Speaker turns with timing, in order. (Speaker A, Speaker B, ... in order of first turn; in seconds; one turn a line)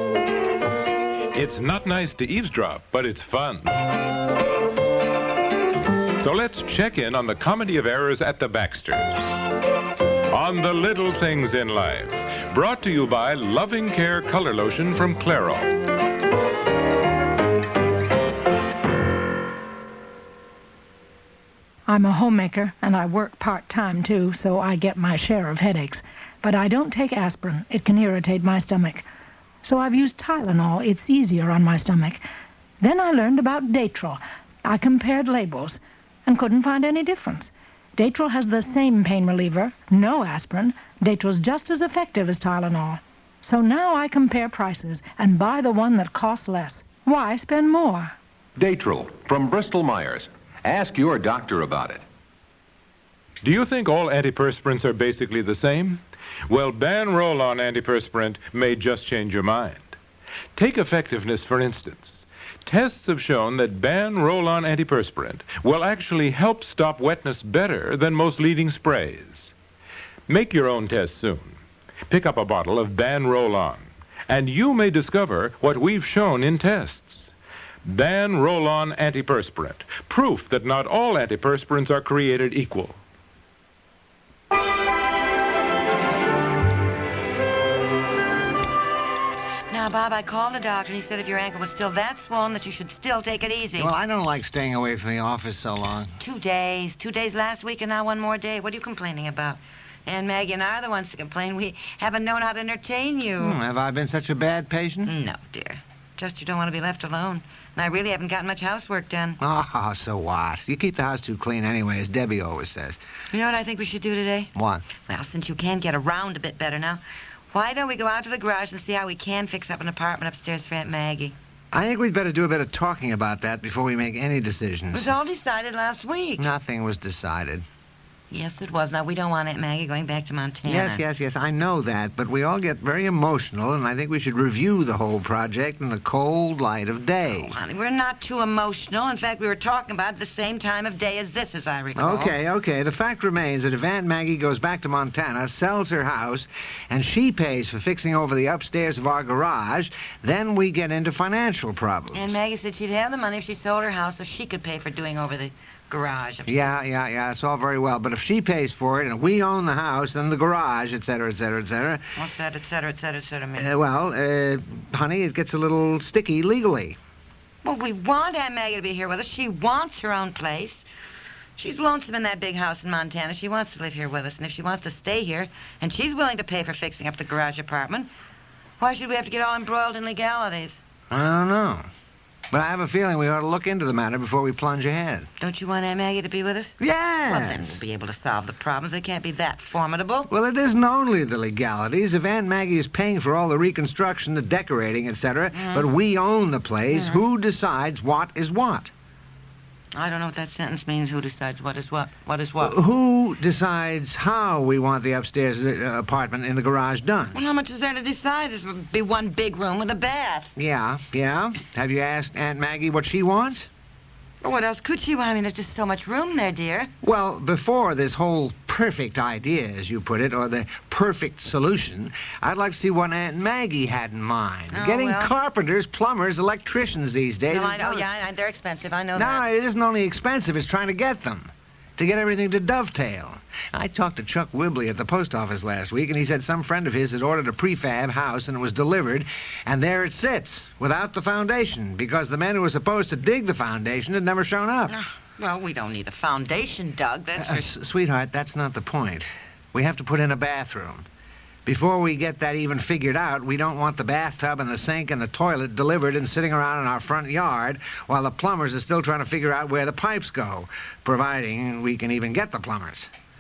Speaker A: 1.3-3.7
Speaker A: 6.2-9.2
Speaker A: 10.3-15.7
Speaker B: 21.9-29.1
Speaker B: 29.6-32.2
Speaker B: 32.8-48.1
Speaker C: 48.6-52.0
Speaker A: 53.4-60.0
Speaker A: 60.5-69.5
Speaker A: 70.3-71.6
Speaker A: 72.1-77.3
Speaker A: 77.8-83.0
Speaker D: 89.7-93.9
Speaker E: 93.8-96.2
Speaker D: 96.2-103.6
Speaker E: 103.4-105.1
Speaker D: 105.0-109.4
Speaker E: 109.4-113.0
Speaker D: 113.3-117.0
Speaker E: 114.5-114.9
Speaker D: 117.5-121.3
Speaker E: 121.7-125.1
Speaker D: 124.9-126.5
Speaker E: 126.4-127.6
Speaker D: 128.3-131.0
Speaker E: 130.6-137.5
Speaker D: 137.3-142.3
Speaker E: 141.9-152.3
Speaker D: 152.1-156.8
Speaker E: 156.5-162.0
Speaker D: 162.2-163.7
Speaker E: 163.6-167.0
Speaker D: 167.6-170.8
Speaker D: 171.6-178.1
Speaker D: 178.8-180.8
Speaker E: 181.1-181.9
Speaker E: 182.5-185.3
Speaker D: 185.4-190.3
Speaker E: 186.8-187.8
Speaker E: 190.3-198.9
Speaker D: 195.5-195.9
Speaker D: 196.9-197.2
Speaker D: 199.9-202.8
Speaker E: 202.6-207.4
Speaker D: 207.3-210.5
Speaker E: 210.6-213.7
Speaker D: 214.4-216.9
Speaker E: 217.0-228.1
Speaker D: 224.7-225.3
Speaker D: 227.5-229.5
Speaker E: 229.2-245.0
Speaker D: 244.9-247.7
Speaker E: 247.4-251.1
Speaker E: 251.7-263.1